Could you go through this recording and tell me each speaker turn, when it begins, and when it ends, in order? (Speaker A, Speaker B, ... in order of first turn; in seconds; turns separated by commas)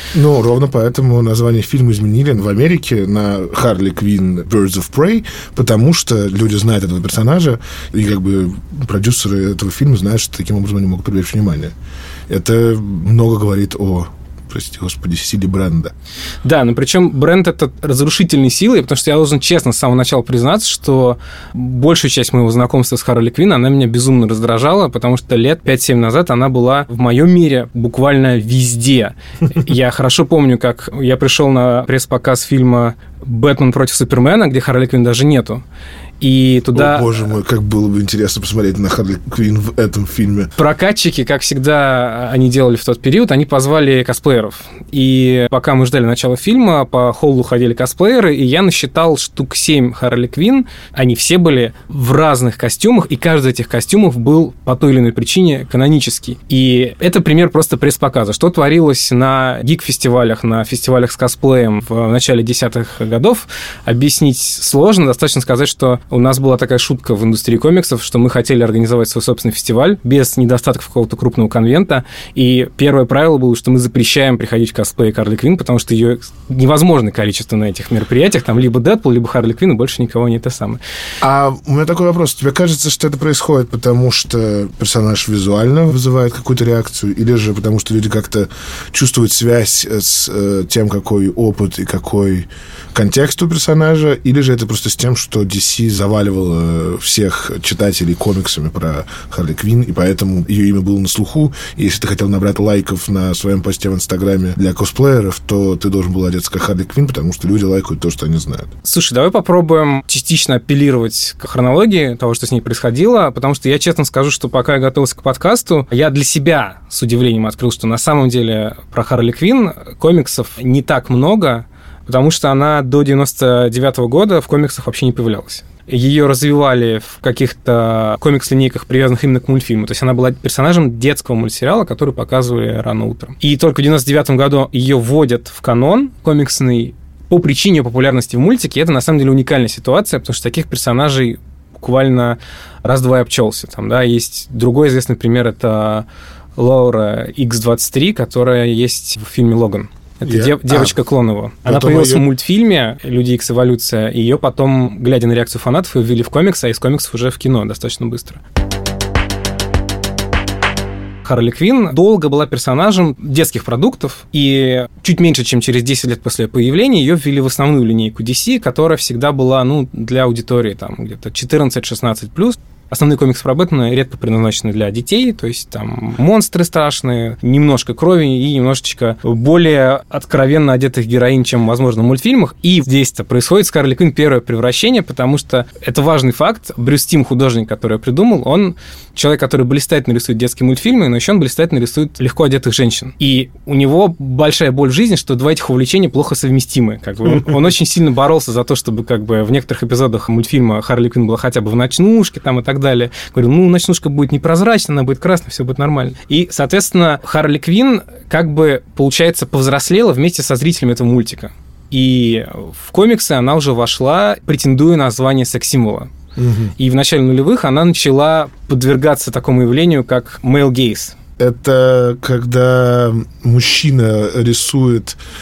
Speaker A: 0.1-11.7, Speaker A: 12.3-15.9, Speaker B: 16.4-35.6, Speaker B: 36.2-37.0, Speaker A: 36.7-40.5, Speaker B: 40.5-80.8, Speaker A: 81.2-108.7, Speaker B: 108.8-146.0, Speaker B: 146.6-158.4, Speaker A: 150.2-151.0, Speaker A: 151.6-152.2, Speaker B: 161.2-216.1, Speaker A: 216.4-216.7, Speaker B: 216.8-221.1, Speaker A: 221.4-225.2